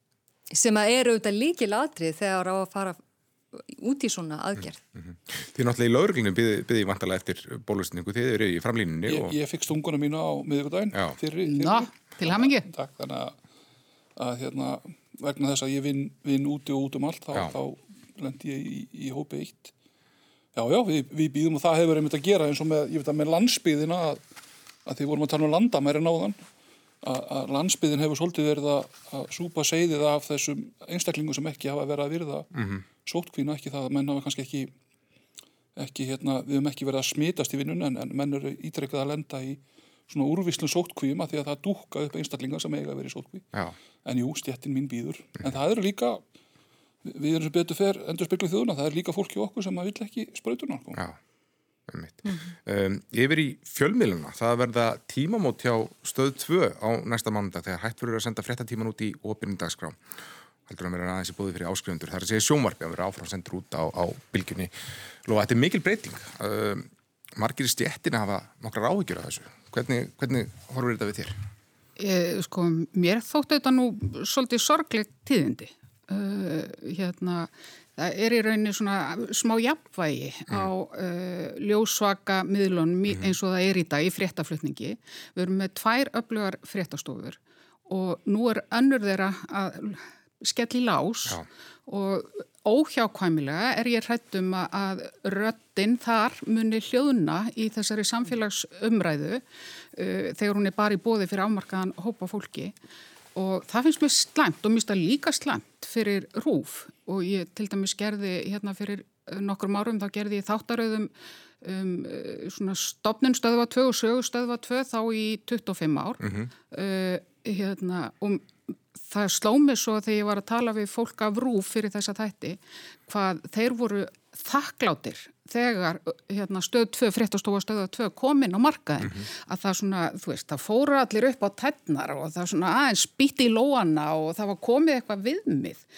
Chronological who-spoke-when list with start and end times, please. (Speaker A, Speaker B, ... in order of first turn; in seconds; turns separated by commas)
Speaker A: 0.5-3.0, Speaker A: 3.5-4.8, Speaker B: 5.0-9.3, Speaker C: 9.1-13.3, Speaker D: 11.4-12.7, Speaker C: 14.2-19.7, Speaker C: 20.5-24.2, Speaker C: 24.8-26.4, Speaker C: 27.0-32.5, Speaker B: 32.5-32.8, Speaker C: 33.0-34.7, Speaker C: 35.8-43.5, Speaker C: 44.0-46.2, Speaker C: 47.0-51.0, Speaker B: 51.9-60.0, Speaker B: 60.7-64.7, Speaker B: 65.2-71.4, Speaker D: 72.0-102.7, Speaker D: 103.3-118.5, Speaker B: 116.2-116.5, Speaker D: 119.1-135.8